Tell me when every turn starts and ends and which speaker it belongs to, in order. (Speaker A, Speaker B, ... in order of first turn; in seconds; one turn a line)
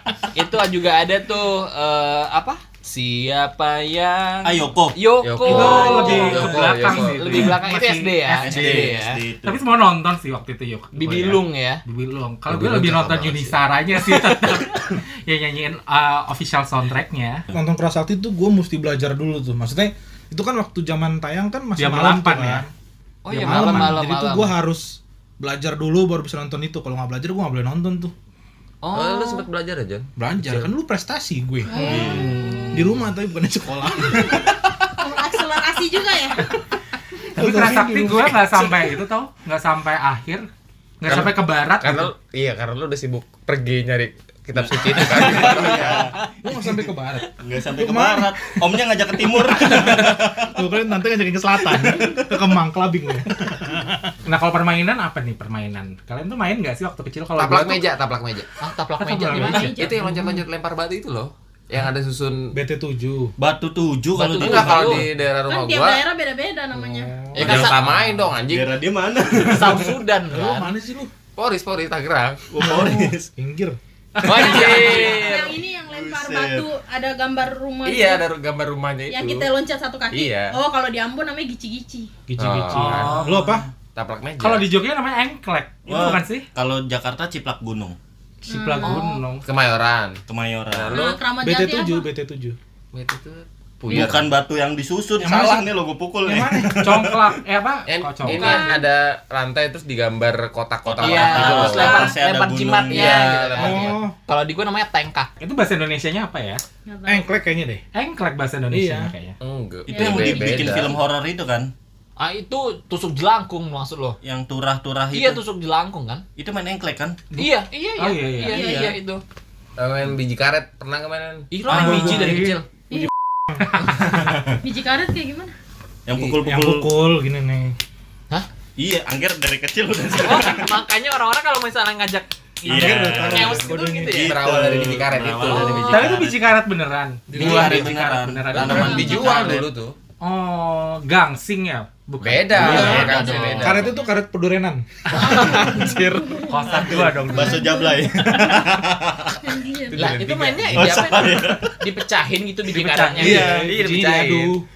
Speaker A: 0.3-9.2
Speaker B: 4.4-4.9
Speaker C: 5.2-7.5
Speaker D: 5.4-8.7
Speaker B: 8.3-9.6
Speaker D: 9.4-17.4
Speaker A: 10.9-11.8
Speaker C: 12.5-13.6
Speaker E: 17.5-22.7
Speaker D: 21.8-22.7
Speaker A: 23.2-24.5
Speaker D: 23.3-24.0
Speaker E: 23.4-28.1
Speaker A: 28.8-29.4
Speaker C: 28.9-30.7
Speaker E: 30.2-31.8
Speaker F: 31.6-32.8
Speaker B: 31.8-32.3
Speaker D: 31.8-32.7
Speaker E: 32.7-34.6
Speaker F: 35.0-36.4
Speaker E: 37.3-38.8
Speaker D: 37.3-40.5
Speaker D: 41.0-42.1
Speaker C: 41.0-46.1
Speaker B: 44.6-46.2
Speaker E: 45.3-45.8
Speaker E: 46.3-48.4
Speaker B: 47.4-50.6
Speaker E: 49.2-54.1
Speaker B: 51.7-52.2
Speaker D: 54.2-57.9
Speaker C: 57.4-58.5
Speaker A: 58.6-59.8
Speaker D: 59.0-59.7
Speaker E: 59.2-60.4
Speaker F: 59.3-60.0
Speaker C: 59.7-62.5
Speaker E: 62.5-63.3
Speaker B: 63.4-65.0
Speaker A: 64.1-65.0
Speaker C: 64.2-66.0
Speaker F: 65.5-67.3
Speaker E: 67.1-67.7
Speaker A: 67.3-67.8
Speaker C: 67.3-68.7
Speaker B: 67.4-67.7
Speaker B: 68.5-70.0
Speaker A: 69.4-70.7
Speaker E: 70.3-71.1
Speaker C: 71.4-72.4
Speaker B: 72.5-73.3
Speaker E: 72.6-73.8
Speaker D: 74.2-75.0
Speaker A: 74.2-75.5
Speaker C: 74.3-75.4
Speaker F: 74.3-78.2
Speaker B: 75.8-76.7
Speaker C: 77.8-79.5
Speaker F: 79.1-82.1
Speaker C: 80.1-80.5
Speaker E: 82.3-83.7
Speaker C: 82.3-83.2
Speaker D: 82.7-83.6
Speaker C: 83.9-84.7
Speaker D: 84.4-86.5
Speaker B: 85.8-88.0
Speaker D: 88.5-89.4
Speaker F: 88.5-89.2
Speaker C: 89.4-91.2
Speaker B: 90.3-91.0
Speaker F: 90.9-92.1
Speaker E: 91.4-92.6
Speaker C: 92.9-94.3
Speaker B: 93.9-97.3
Speaker E: 95.2-96.9
Speaker D: 96.8-98.7
Speaker C: 97.9-102.1
Speaker F: 98.3-98.8
Speaker B: 100.9-103.3
Speaker A: 101.0-105.3
Speaker F: 101.7-102.2
Speaker C: 102.9-104.0
Speaker E: 103.6-104.2
Speaker D: 105.4-106.6
Speaker F: 106.8-107.3
Speaker E: 107.0-107.8
Speaker D: 107.9-109.3
Speaker E: 108.7-109.1
Speaker C: 109.4-111.0
Speaker B: 109.9-111.7
Speaker F: 109.9-110.5
Speaker A: 112.2-114.2
Speaker B: 114.2-115.4
Speaker A: 115.1-116.2
Speaker B: 116.4-117.3
Speaker D: 117.3-118.6
Speaker A: 117.3-119.2
Speaker F: 118.5-119.0
Speaker C: 118.5-118.9
Speaker C: 119.8-121.5
Speaker A: 121.5-122.7
Speaker B: 121.7-122.4
Speaker D: 121.7-122.6
Speaker D: 123.6-124.0
Speaker B: 123.9-124.6
Speaker F: 124.6-125.5
Speaker B: 126.0-126.9
Speaker E: 126.4-127.8
Speaker B: 128.8-130.8
Speaker A: 130.2-134.3
Speaker E: 132.6-134.3
Speaker B: 132.6-136.4
Speaker C: 134.1-136.2
Speaker A: 135.5-135.8
Speaker D: 135.8-139.1
Speaker E: 137.3-137.9
Speaker B: 137.3-139.7
Speaker C: 138.5-139.9
Speaker F: 138.8-139.4
Speaker D: 140.2-143.3
Speaker C: 142.2-143.9
Speaker B: 142.5-143.9
Speaker F: 142.7-144.1
Speaker E: 143.6-144.8
Speaker F: 145.2-148.7
Speaker C: 145.2-146.1
Speaker A: 145.4-145.7
Speaker D: 146.4-147.7
Speaker B: 146.7-149.5
Speaker F: 149.4-150.1
Speaker C: 149.9-151.0
Speaker A: 149.9-153.5
Speaker B: 150.7-151.9
Speaker D: 152.7-153.5
Speaker E: 153.2-154.6
Speaker B: 153.2-153.7
Speaker C: 153.5-154.6